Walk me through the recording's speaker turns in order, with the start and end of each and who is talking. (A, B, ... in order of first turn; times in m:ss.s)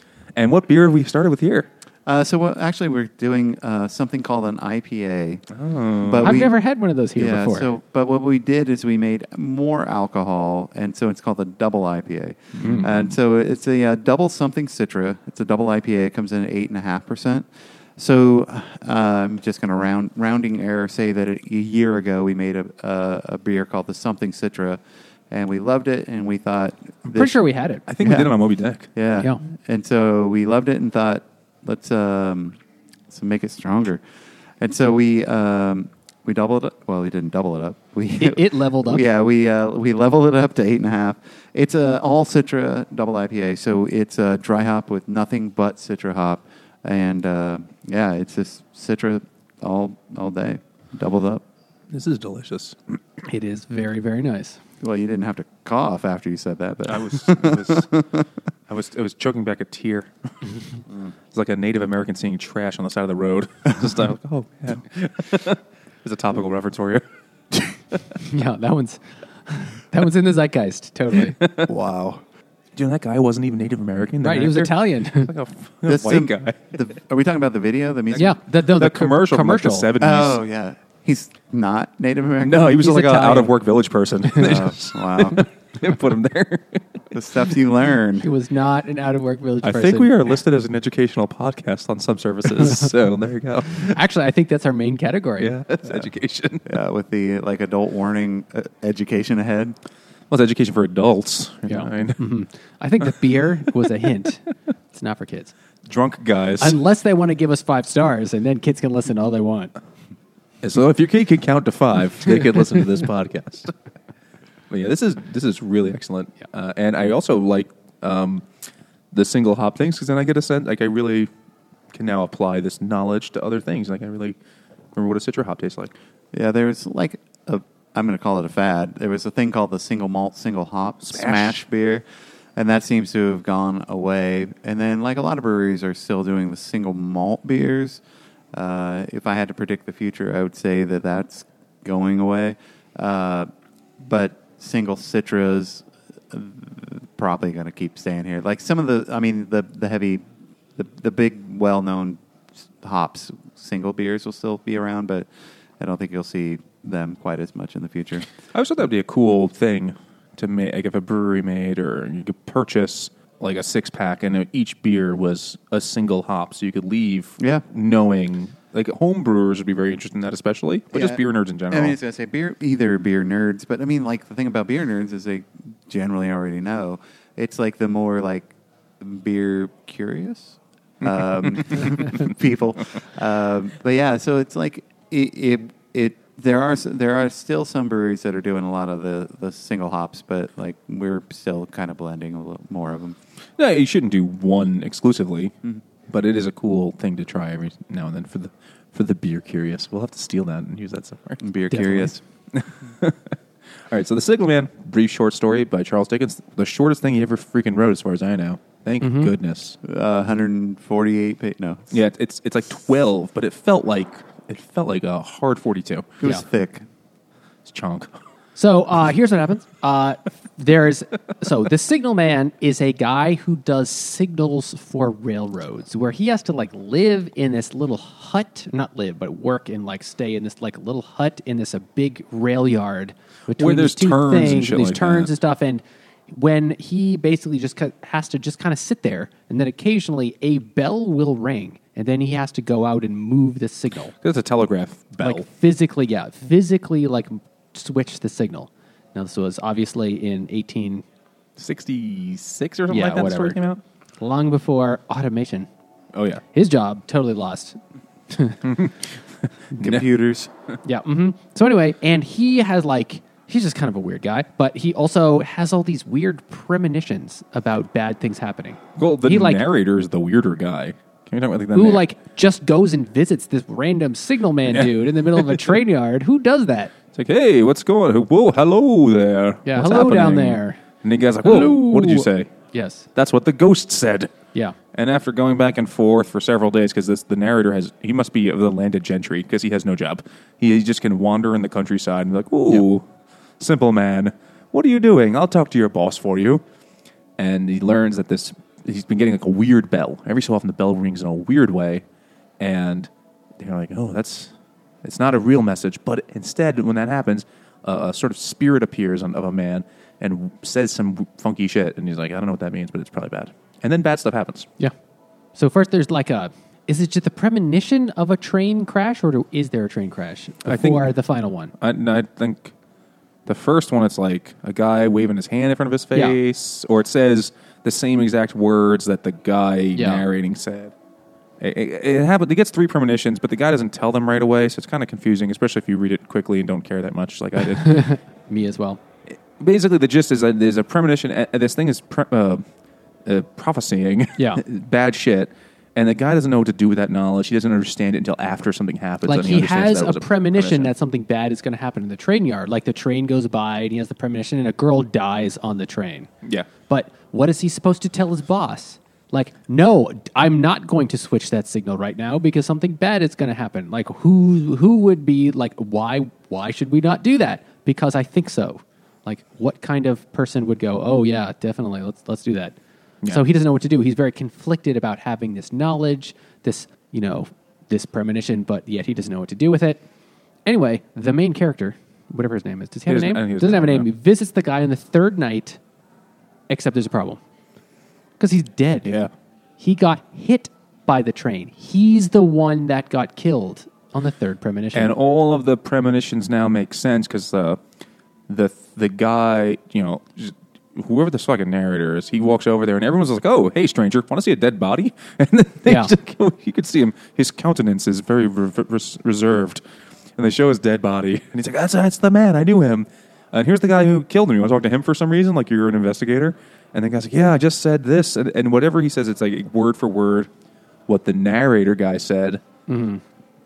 0:00.4-0:01.7 A
0:02.0-0:05.4 B
0:05.5-0:06.4 A
0:06.0-0:06.5 B
0:06.2-0:07.7 C
0:07.2-0:27.4 B
0:12.6-0:13.1 A
0:27.1-0:27.8 C
0:27.9-0:28.9 A
0:28.0-0:28.4 B
0:28.9-0:32.6 B
0:33.1-0:34.0 B
0:34.6-0:51.4 B
0:38.2-0:39.0 C
0:51.9-0:52.8 A
0:53.2-0:54.6 C
0:54.8-0:58.2 B
0:56.8-0:57.9 A
0:58.7-1:00.1 A
1:01.3-1:07.0 A
1:07.5-1:08.0 A
1:08.1-1:11.4 C
1:11.3-1:11.7 A
1:11.6-1:12.2 B
1:12.8-1:16.7 A
1:14.2-1:15.3 C
1:15.8-1:18.4 B
1:18.1-1:19.9 C
1:18.8-1:20.4 A
1:20.0-1:22.8 B
1:22.4-1:27.0 A
1:22.7-1:23.6 C
1:24.3-1:24.5 C
1:24.4-1:25.4 B
1:27.1-1:28.3 B
1:28.2-1:30.3 C
1:29.6-1:34.0 A
1:33.8-1:35.5 C
1:35.4-1:36.8 A
1:36.6-1:39.8 B
1:40.3-1:42.2 A
1:41.7-1:45.5 C
1:45.9-1:46.8 A
1:46.6-1:49.7 C
1:50.6-1:53.7 A
1:54.7-1:58.4 A
1:59.1-2:01.3 A
2:01.9-2:04.4 A
2:04.9-2:05.9 A
2:06.3-2:18.0 B
2:11.0-2:11.6 A
2:18.5-2:23.5 B
2:24.0-2:30.2 B
2:30.8-2:32.2 B
2:32.8-2:35.3 B
2:35.8-2:38.3 B
2:38.5-2:52.0 A
2:47.4-2:47.6 B
2:50.9-3:13.2 B
3:01.0-3:02.3 A
3:13.6-3:15.5 A
3:16.1-3:23.4 A
3:21.4-3:22.2 B
3:21.8-3:22.1 C
3:23.9-3:29.8 A
3:29.0-3:29.3 C
3:29.8-3:32.0 B
3:31.9-3:36.2 A
3:36.2-3:36.8 B
3:37.6-3:38.1 A
3:38.6-4:04.1 C
3:53.5-3:55.3 A
4:04.2-4:05.4 A
4:05.2-4:11.0 C
4:11.6-4:13.8 A
4:12.9-4:13.6 C
4:14.2-4:15.7 C
4:16.1-4:16.4 A
4:16.5-4:18.6 C
4:18.6-4:20.0 A
4:19.8-4:20.5 B
4:20.8-4:29.6 C
4:29.0-4:32.0 A
4:31.7-4:36.9 C
4:34.7-4:35.6 A
4:37.1-4:42.5 A
4:39.6-4:40.8 C
4:41.4-4:43.1 C
4:43.1-4:44.3 A
4:44.9-4:53.0 A
4:53.6-4:56.6 A
4:57.4-5:02.0 A
5:02.6-5:04.5 A
5:05.0-5:14.6 A
5:15.5-5:21.7 C
5:20.6-5:21.1 A
5:21.8-5:22.7 A
5:23.4-5:30.9 A
5:30.0-5:30.2 C
5:31.6-5:38.1 A
5:37.6-5:39.0 C
5:39.6-5:42.6 A
5:43.2-5:50.9 A
5:44.4-5:44.6 C
5:49.2-5:56.3 C
5:56.4-5:56.7 A
5:56.9-6:20.0 C
6:20.6-6:25.8 C
6:23.1-6:24.1 A
6:26.7-6:27.4 C
6:28.4-6:29.2 C
6:29.8-6:35.1 C
6:34.9-6:37.8 A
6:38.5-6:49.8 A
6:45.8-6:46.1 C
6:50.4-7:00.5 A
7:01.1-7:02.6 A
7:02.9-7:03.2 C